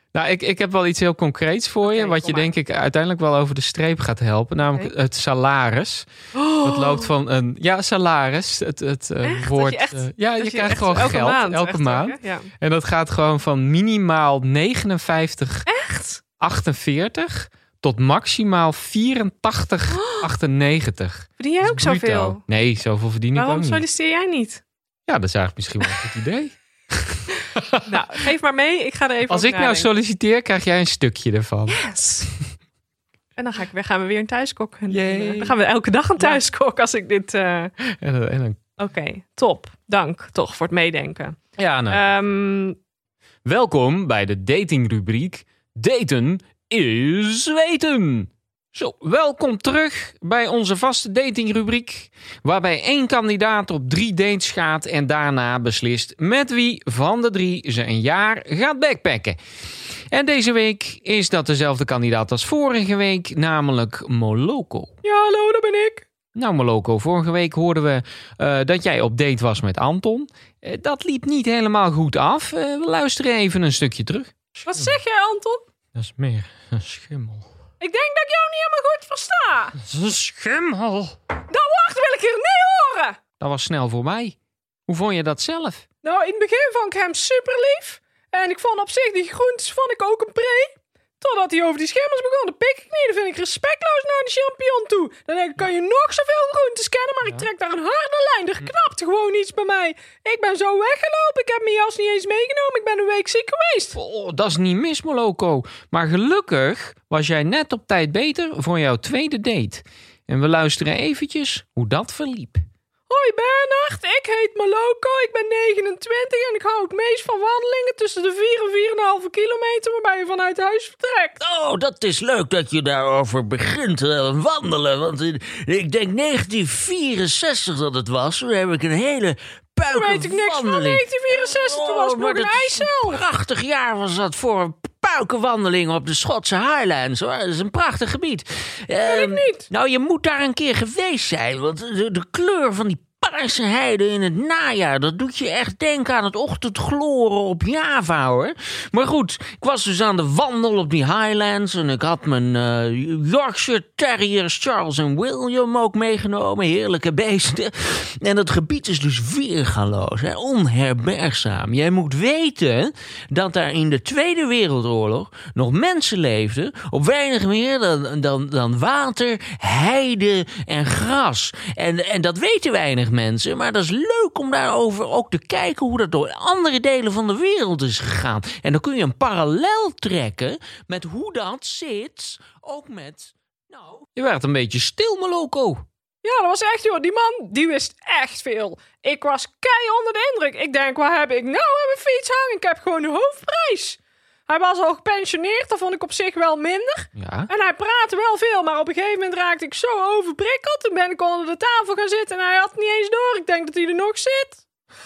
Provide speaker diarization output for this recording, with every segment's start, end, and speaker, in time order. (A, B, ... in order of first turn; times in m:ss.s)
0:00.1-0:06.1 A
0:01.8-0:02.5 B
0:06.3-0:07.1 B
0:06.6-0:15.7 A
0:09.2-0:12.5 B
0:15.7-0:16.2 B
0:16.4-0:23.8 A
0:19.9-0:20.3 B
0:21.4-0:22.4 B
0:23.4-0:24.6 B
0:25.1-0:27.9 A
0:27.9-0:29.9 B
0:29.3-0:31.8 A
0:31.7-0:32.3 B
0:33.4-0:37.7 B
0:34.9-0:35.6 A
0:37.8-0:38.6 A
0:38.8-0:42.8 B
0:41.6-0:42.0 A
0:43.4-0:59.4 A
1:00.1-1:04.9 A
1:05.0-1:06.0 B
1:06.4-1:14.9 A
1:14.6-1:15.6 B
1:16.0-1:17.5 A
1:17.8-1:19.8 B
1:19.8-1:21.2 A
1:21.5-1:23.2 B
1:23.4-1:24.4 A
1:24.9-1:25.8 A
1:26.0-1:44.0 B
1:44.0-1:52.6 A
1:53.1-2:01.4 B
2:01.4-3:04.1 C
2:09.9-2:13.2 B
2:19.0-2:19.7 B
3:04.2-3:05.8 A
3:06.2-3:24.6 B
3:17.2-3:17.5 A